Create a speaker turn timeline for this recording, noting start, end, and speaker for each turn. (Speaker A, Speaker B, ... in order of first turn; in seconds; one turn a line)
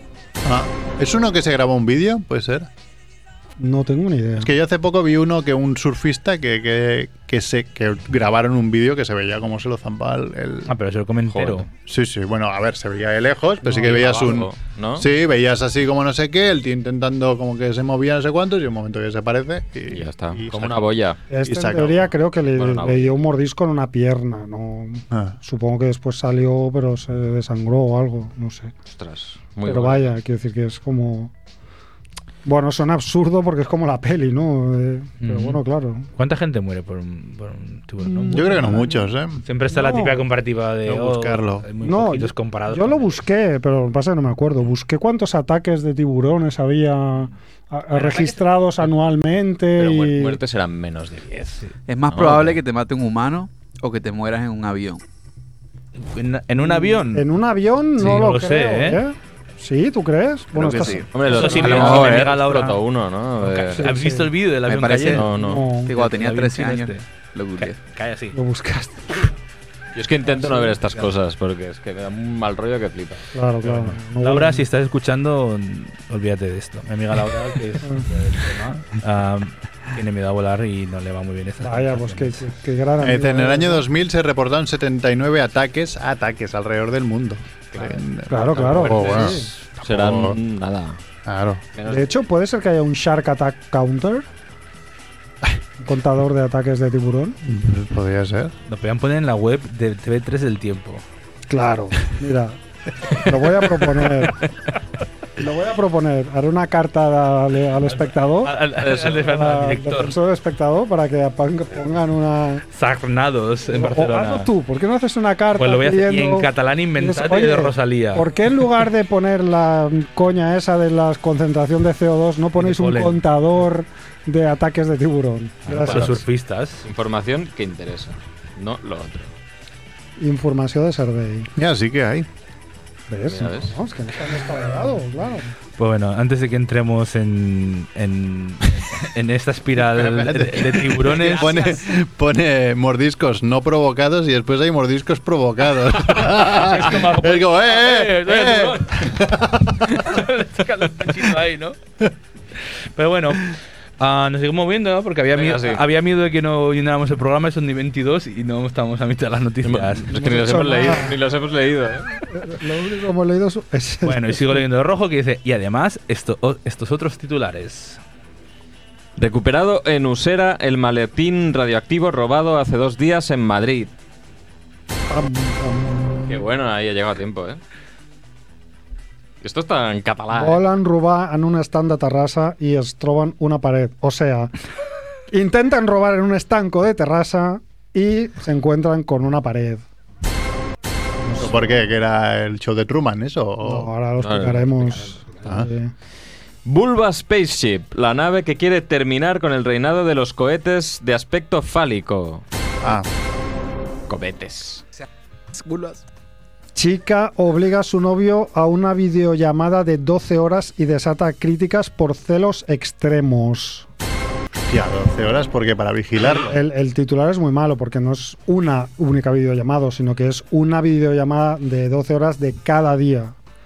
Speaker A: 0.4-2.7
Speaker B: 3.6-4.5
Speaker A: 4.4-10.7
Speaker C: 10.7-11.7
Speaker D: 11.3-11.7
Speaker A: 11.8-20.9
Speaker B: 13.7-14.1
Speaker D: 13.7-15.1
Speaker D: 19.9-21.2
Speaker B: 21.3-28.7
Speaker A: 21.4-22.1
Speaker D: 22.5-23.2
Speaker D: 28.9-30.1
Speaker B: 29.6-31.3
Speaker B: 32.4-36.1
Speaker C: 35.2-35.6
Speaker C: 36.1-38.9
Speaker B: 38.0-39.0
Speaker A: 38.3-39.4
Speaker C: 39.4-43.2
Speaker B: 39.7-40.2
Speaker A: 40.9-41.7
Speaker B: 41.8-50.4
Speaker C: 47.9-48.4
Speaker D: 49.8-52.6
Speaker E: 51.9-55.0
Speaker C: 56.0-57.3
Speaker B: 56.7-62.0
Speaker C: 58.0-59.0
Speaker E: 60.5-61.1
Speaker D: 61.1-63.9
Speaker C: 61.2-62.8
Speaker E: 61.8-62.1
Speaker C: 63.4-65.3
Speaker B: 63.7-64.3
Speaker E: 64.7-67.8
Speaker D: 65.1-65.7
Speaker B: 65.3-65.9
Speaker C: 65.9-67.1
Speaker C: 67.6-68.4
Speaker B: 68.3-69.3
Speaker D: 69.9-73.3
Speaker B: 70.4-70.7
Speaker B: 73.3-74.6
Speaker C: 73.6-82.5
Speaker B: 77.8-78.1
Speaker B: 81.6-83.9
Speaker A: 83.0-90.4
Speaker B: 88.3-89.5
Speaker D: 88.5-91.0
Speaker A: 91.2-91.6
Speaker D: 91.7-92.1
Speaker B: 91.8-94.2
Speaker B: 95.8-97.4
Speaker A: 97.4-98.5
Speaker C: 98.7-101.0
Speaker B: 101.5-102.6
Speaker B: 103.1-104.4
Speaker B: 105.4-112.6
Speaker C: 107.9-110.2
Speaker D: 108.8-109.2
Speaker C: 112.7-114.5
Speaker B: 113.7-126.2
Speaker C: 115.5-118.3
Speaker C: 122.5-123.2
Speaker D: 125.7-126.2
Speaker C: 125.7-126.8
Speaker D: 126.8-129.3
Speaker B: 130.2-131.5
Speaker A: 131.6-132.3
Speaker B: 133.1-135.5
Speaker D: 133.3-133.8
Speaker C: 135.8-141.8
Speaker A: 139.8-150.2
Speaker C: 146.4-149.2
Speaker C: 149.9-151.8
Speaker C: 152.6-160.2
Speaker D: 155.3-155.8
Speaker D: 159.6-162.3
Speaker B: 160.1-161.2
Speaker B: 162.3-164.6
Speaker C: 164.0-168.0
Speaker D: 169.2-173.9
Speaker B: 175.1-176.4
Speaker D: 176.2-177.6
Speaker D: 179.4-180.6
Speaker B: 180.3-184.5
Speaker B: 185.3-189.8
Speaker B: 191.2-191.9
Speaker A: 191.4-193.9
Speaker B: 193.6-195.9
Speaker D: 194.2-195.6
Speaker D: 196.6-202.4
Speaker D: 204.1-204.8
Speaker E: 205.5-206.0
Speaker B: 206.7-213.9
Speaker A: 214.7-216.6
Speaker B: 216.2-223.3